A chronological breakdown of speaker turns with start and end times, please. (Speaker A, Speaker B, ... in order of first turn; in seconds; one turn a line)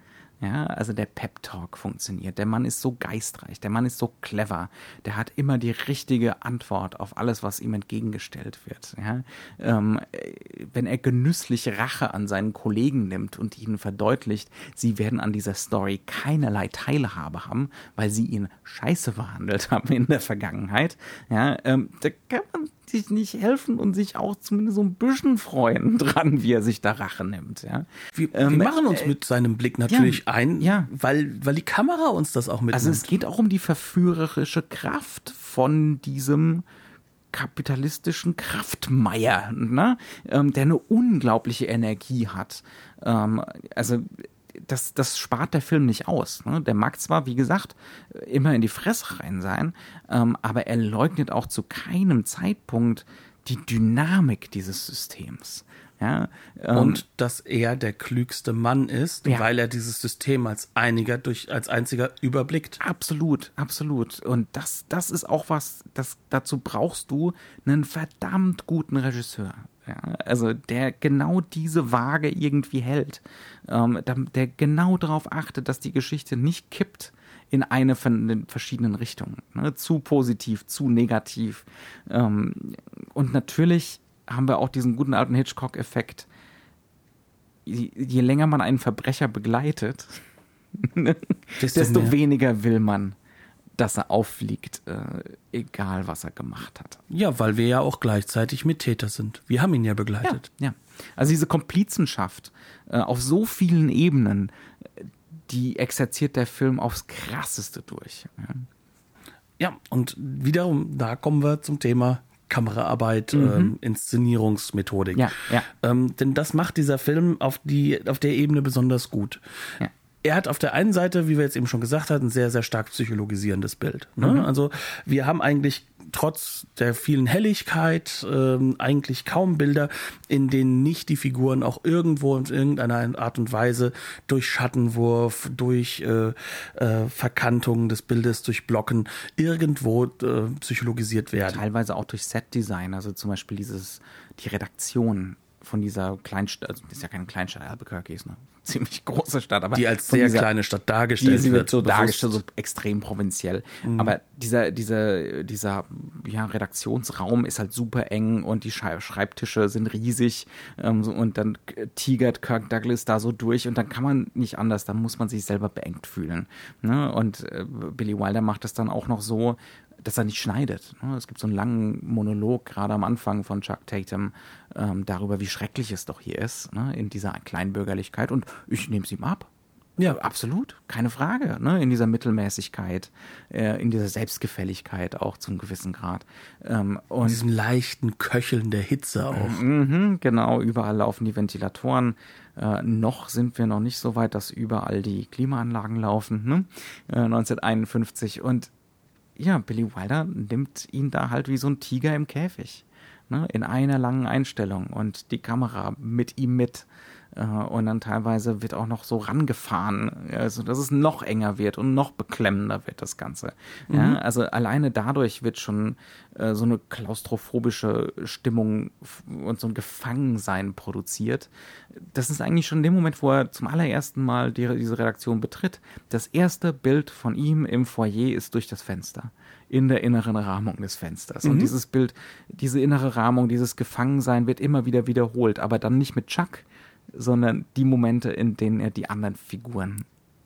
Speaker A: 0.4-29.1
Speaker B: 28.1-33.0
Speaker A: 29.9-30.9
Speaker A: 32.7-36.6
Speaker A: 37.3-57.0
Speaker B: 56.7-62.8
Speaker A: 62.8-86.3
Speaker A: 87.7-90.2
Speaker A: 90.7-93.2
Speaker B: 91.6-92.2
Speaker A: 93.8-97.0
Speaker B: 97.1-100.4
Speaker A: 100.2-108.7
Speaker B: 109.6-119.4
Speaker A: 113.3-113.7
Speaker A: 115.1-115.7
Speaker B: 120.2-141.6
Speaker A: 141.5-150.5
Speaker B: 149.7-152.3
Speaker A: 151.2-179.5
Speaker B: 153.8-154.1
Speaker A: 180.0-187.4
Speaker B: 187.2-189.6
Speaker A: 189.3-198.7
Speaker A: 199.4-240.1
Speaker B: 213.9-214.2
Speaker B: 231.4-231.7